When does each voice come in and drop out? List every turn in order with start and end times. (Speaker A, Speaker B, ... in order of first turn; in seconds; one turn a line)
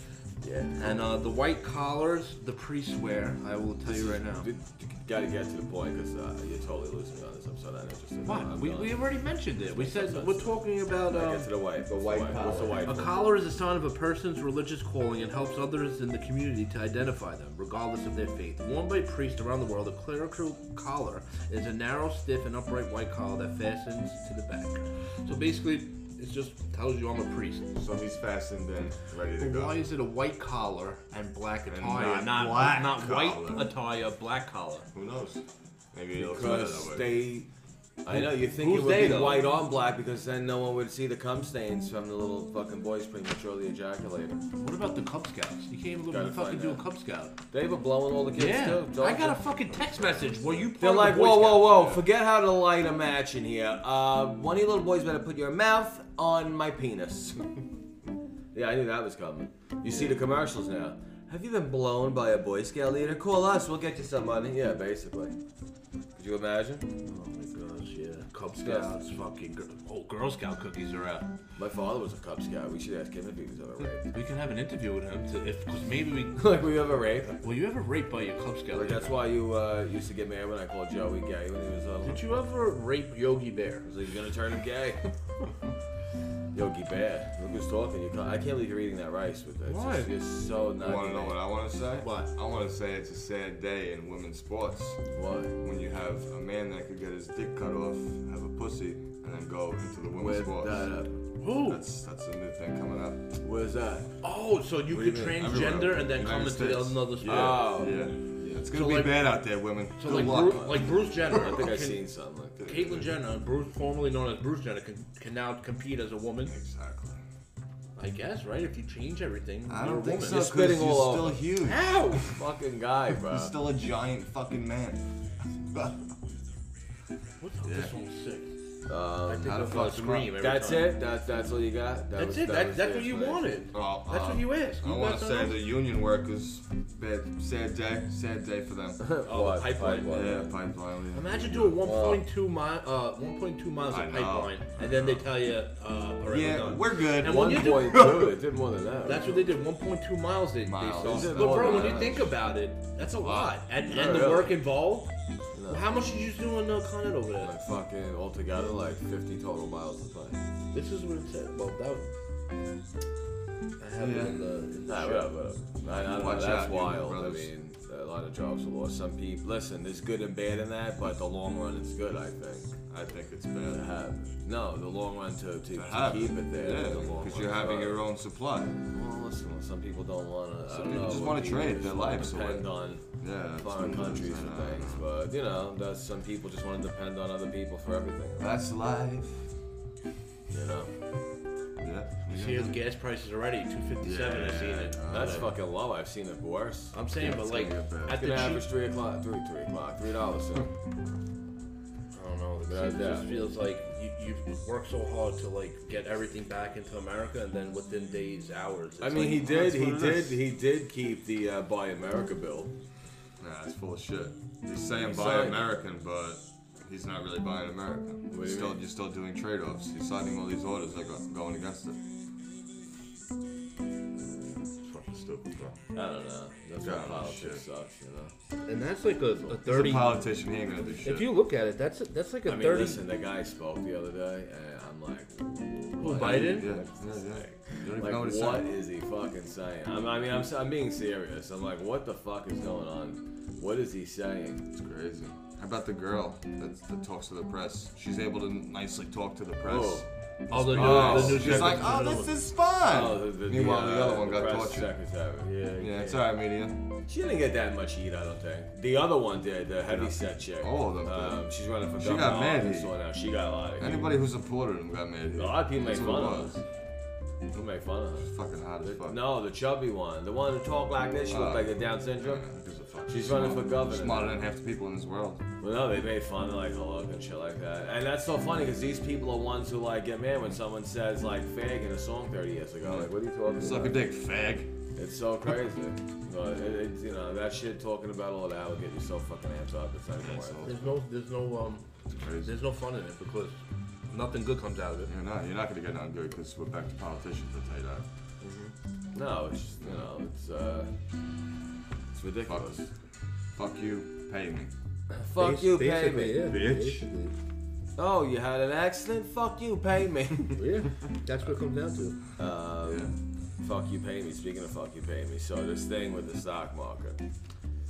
Speaker A: 0.4-1.1
Speaker B: 0.8-4.5
Speaker A: 3.9-9.0
Speaker B: 8.2-11.5
Speaker A: 9.7-13.2
Speaker C: 11.9-13.1
Speaker B: 12.8-27.7
Speaker C: 27.7-29.8
Speaker B: 29.4-34.9
Speaker C: 31.7-33.7
Speaker C: 34.9-37.1
Speaker A: 36.2-37.5
Speaker A: 38.0-44.4
Speaker B: 38.1-39.5
Speaker B: 44.6-47.3
Speaker A: 46.1-46.8
Speaker A: 47.5-49.4
Speaker B: 48.4-51.8
Speaker C: 49.9-50.6
Speaker A: 50.8-57.5
Speaker C: 51.7-52.0
Speaker A: 58.5-65.3
Speaker B: 59.9-60.1
Speaker A: 66.2-66.9
Speaker B: 67.0-71.3
Speaker A: 68.6-68.9
Speaker A: 71.5-74.1
Speaker B: 74.1-76.4
Speaker A: 76.3-77.4
Speaker B: 77.4-79.1
Speaker A: 78.7-82.4
Speaker B: 82.0-83.8
Speaker A: 83.8-85.1
Speaker A: 86.5-91.4
Speaker B: 89.7-90.1
Speaker C: 90.8-95.0
Speaker B: 92.0-92.3
Speaker A: 95.1-95.5
Speaker C: 95.6-100.9
Speaker A: 100.2-101.1
Speaker B: 101.4-101.8
Speaker C: 101.5-103.2
Speaker A: 103.4-104.1
Speaker B: 104.2-107.8
Speaker C: 104.9-110.8
Speaker A: 107.2-108.0
Speaker B: 108.7-109.3
Speaker B: 110.0-112.0
Speaker A: 110.3-110.8
Speaker A: 111.3-112.7
Speaker C: 112.6-113.1
Speaker B: 112.7-116.5
Speaker C: 116.5-117.2
Speaker B: 118.0-120.4
Speaker C: 119.7-122.0
Speaker A: 120.2-121.4
Speaker B: 121.6-122.2
Speaker A: 122.1-123.5
Speaker C: 123.2-125.0
Speaker C: 125.7-126.0
Speaker B: 127.4-128.5
Speaker C: 127.6-127.9
Speaker A: 128.9-129.6
Speaker B: 129.3-130.9
Speaker C: 129.4-130.3
Speaker A: 130.4-133.5
Speaker B: 132.2-135.6
Speaker C: 133.7-139.0
Speaker A: 139.0-140.5
Speaker B: 139.2-140.4
Speaker C: 140.1-142.0
Speaker B: 141.1-148.3
Speaker A: 141.8-142.2
Speaker C: 143.9-145.3
Speaker C: 146.3-148.3
Speaker A: 147.2-149.4
Speaker B: 149.0-155.1
Speaker C: 150.6-152.3
Speaker A: 151.0-152.2
Speaker C: 153.0-153.6
Speaker A: 153.8-154.6
Speaker A: 155.5-155.8
Speaker B: 155.7-157.5
Speaker A: 157.4-160.4
Speaker B: 160.7-162.1
Speaker B: 163.8-165.3
Speaker C: 164.0-164.4
Speaker A: 164.9-172.8
Speaker C: 165.8-167.5
Speaker C: 172.9-173.8
Speaker A: 173.7-178.0
Speaker C: 175.7-178.8
Speaker B: 176.9-177.5
Speaker A: 178.8-183.0
Speaker C: 180.7-185.0
Speaker A: 183.6-188.6
Speaker C: 188.4-189.4
Speaker A: 190.5-190.9
Speaker C: 191.8-192.8
Speaker B: 192.3-195.3
Speaker C: 194.0-195.5
Speaker A: 195.1-196.9
Speaker B: 196.9-198.7
Speaker C: 197.1-198.2
Speaker A: 198.1-200.7
Speaker B: 202.1-209.7
Speaker A: 202.7-203.3
Speaker A: 209.0-212.7
Speaker C: 209.4-210.3
Speaker C: 213.4-222.0
Speaker A: 215.1-215.6
Speaker A: 218.3-218.8
Speaker C: 224.7-225.8
Speaker A: 225.9-228.3
Speaker C: 226.8-227.6
Speaker B: 228.7-230.2
Speaker C: 229.6-231.3
Speaker B: 231.0-233.0
Speaker A: 232.5-244.7
Speaker B: 236.0-236.7
Speaker C: 236.0-238.7
Speaker C: 244.7-254.9
Speaker A: 249.7-250.1
Speaker B: 250.5-252.3
Speaker A: 250.7-251.8
Speaker A: 252.9-256.3
Speaker C: 255.8-256.8
Speaker A: 257.1-264.1
Speaker C: 259.9-261.4
Speaker C: 262.0-262.9
Speaker C: 263.8-266.6
Speaker A: 265.3-266.6
Speaker A: 267.5-268.3
Speaker C: 268.2-269.2
Speaker A: 268.8-272.4
Speaker C: 271.3-275.4
Speaker A: 273.1-274.4
Speaker A: 275.6-284.0
Speaker C: 282.8-284.7
Speaker A: 285.0-290.7
Speaker C: 290.2-291.0
Speaker B: 290.6-291.8
Speaker C: 292.2-292.6
Speaker B: 292.4-295.1
Speaker C: 295.1-298.0
Speaker A: 298.4-300.9
Speaker A: 302.1-302.8
Speaker C: 302.5-302.9
Speaker C: 303.6-304.7
Speaker B: 305.2-307.3
Speaker A: 305.3-306.5
Speaker C: 306.4-307.1
Speaker A: 308.0-310.6
Speaker B: 310.5-312.2
Speaker A: 312.4-317.2
Speaker C: 312.9-313.1